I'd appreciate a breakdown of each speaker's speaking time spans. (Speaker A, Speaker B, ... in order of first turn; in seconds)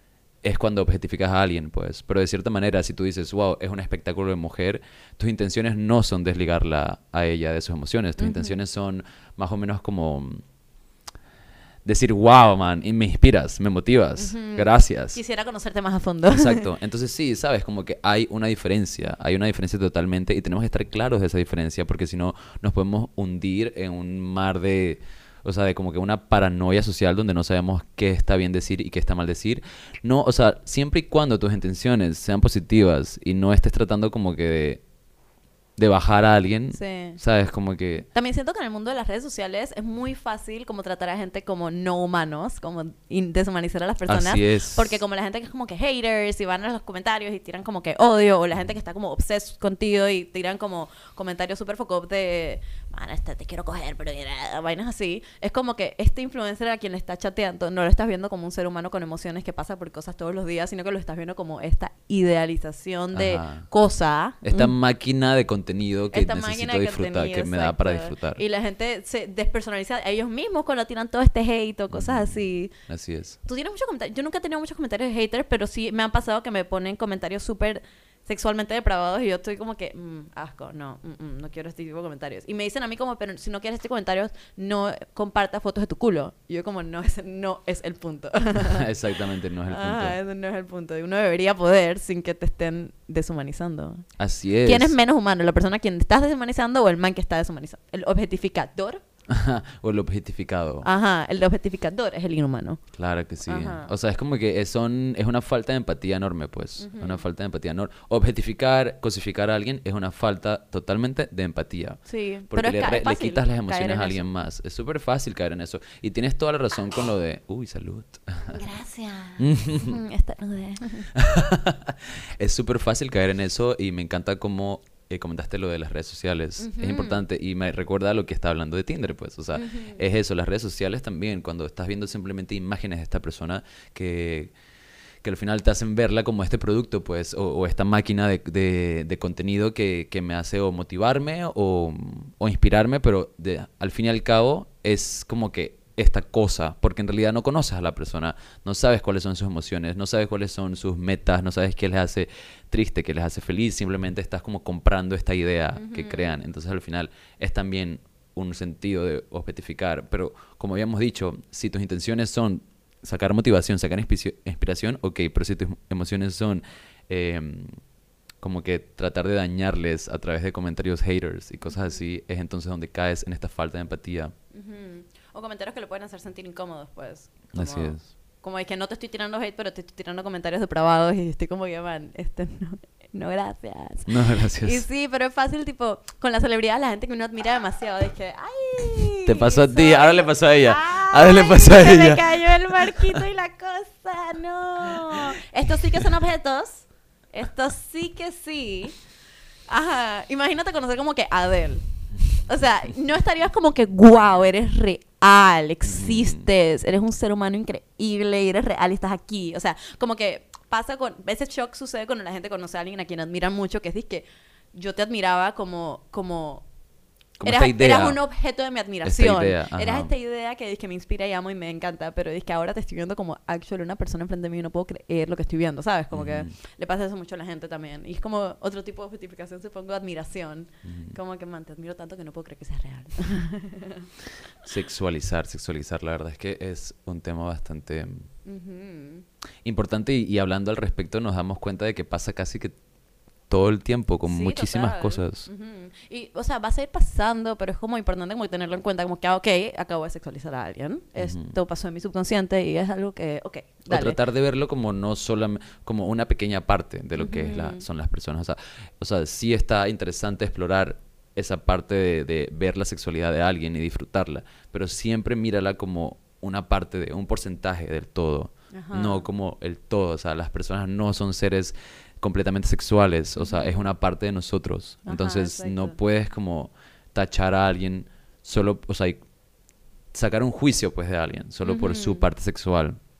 Speaker A: 0.4-10.4, 11.8-15.2, 16.3-34.8, 35.8-38.0, 44.1-44.9, 63.1-63.7, 64.4-68.4, 71.9-73.4, 88.5-90.2, 94.2-94.9, 99.3-100.9, 103.0-118.6, 119.4-119.9, 121.1-134.5, 135.2-167.8, 168.4-174.3, 177.5-178.1, 184.1-184.8, 189.2-193.2, 205.9-206.4, 217.4-218.2, 219.0-220.1, 226.1-226.5, 230.8-231.2, 234.6-238.3, 239.6-242.7, 243.5-245.5, 251.2-251.5, 253.9-279.2, 280.1-283.0
Speaker B: 8.2-8.6, 14.2-16.6, 36.7-37.2, 38.1-64.7, 66.1-72.7, 73.4-88.9, 89.7-94.0, 94.6-99.0, 100.8-102.8, 103.5-103.9, 106.8-107.2, 112.1-114.3, 118.5-121.1, 126.6-127.2, 129.5-130.0, 155.8-156.3, 171.6-172.0, 174.5-198.9, 199.7-216.7, 217.4-234.1, 238.4-239.2, 244.2-254.2, 257.2-257.8, 268.7-269.3, 273.4-273.8, 275.1-275.9, 281.6-282.2